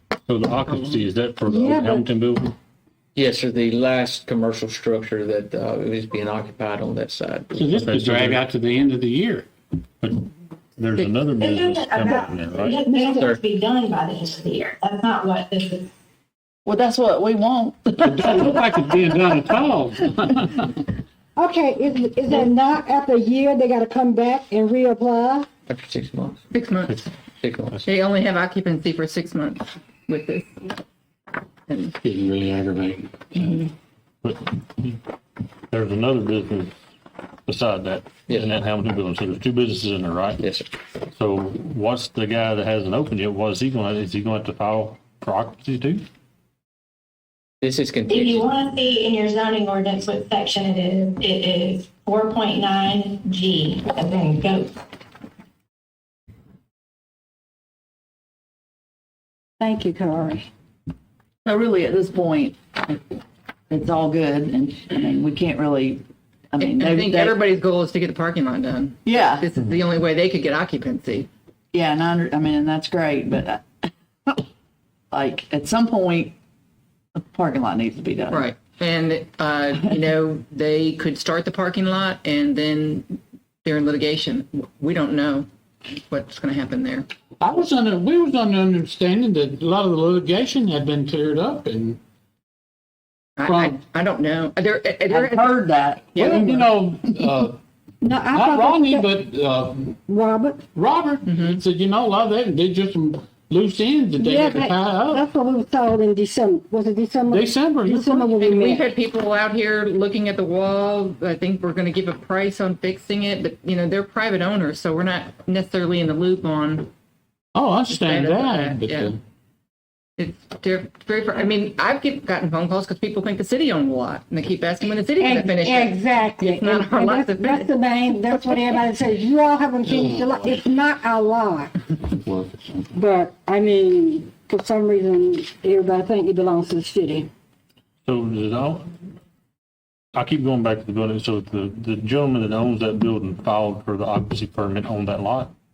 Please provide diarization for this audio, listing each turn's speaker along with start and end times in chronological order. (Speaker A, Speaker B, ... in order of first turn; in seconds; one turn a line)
Speaker A: 0.3-2.5
Speaker B: 0.7-1.0
Speaker C: 1.5-2.0
Speaker D: 3.1-7.6
Speaker E: 7.5-9.5
Speaker A: 7.6-8.4
Speaker A: 10.0-12.8
Speaker F: 11.4-15.9
Speaker D: 13.1-13.4
Speaker G: 16.6-19.0
Speaker E: 18.0-20.7
Speaker C: 21.4-25.5
Speaker D: 25.7-26.4
Speaker B: 26.5-27.0
Speaker D: 27.4-27.7
Speaker B: 27.8-30.5
Speaker B: 31.7-31.9
Speaker E: 32.0-33.7
Speaker A: 34.2-35.0
Speaker A: 35.7-36.7
Speaker A: 37.5-40.4
Speaker D: 38.3-38.5
Speaker D: 40.4-40.7
Speaker A: 41.1-46.0
Speaker D: 47.6-48.6
Speaker F: 48.1-54.8
Speaker C: 59.6-60.5
Speaker G: 61.5-63.0
Speaker G: 63.7-67.4
Speaker B: 66.6-71.3
Speaker G: 69.1-69.5
Speaker G: 71.7-74.4
Speaker G: 75.1-76.3
Speaker G: 77.2-78.5
Speaker B: 78.3-87.1
Speaker E: 87.4-92.0
Speaker B: 93.4-96.5
Speaker E: 93.5-93.8
Speaker G: 95.1-96.8
Speaker E: 96.2-97.5
Speaker C: 98.0-99.1
Speaker E: 98.3-100.0
Speaker C: 100.1-100.6
Speaker E: 100.8-105.2
Speaker B: 101.3-101.6
Speaker C: 104.2-108.9
Speaker E: 107.3-108.3
Speaker B: 108.4-116.9
Speaker E: 117.5-119.2
Speaker B: 117.9-119.1
Speaker B: 120.2-127.7
Speaker C: 125.2-131.7
Speaker E: 129.8-130.5
Speaker E: 132.1-132.8
Speaker C: 132.9-137.3
Speaker A: 138.0-138.9
Speaker A: 140.1-145.5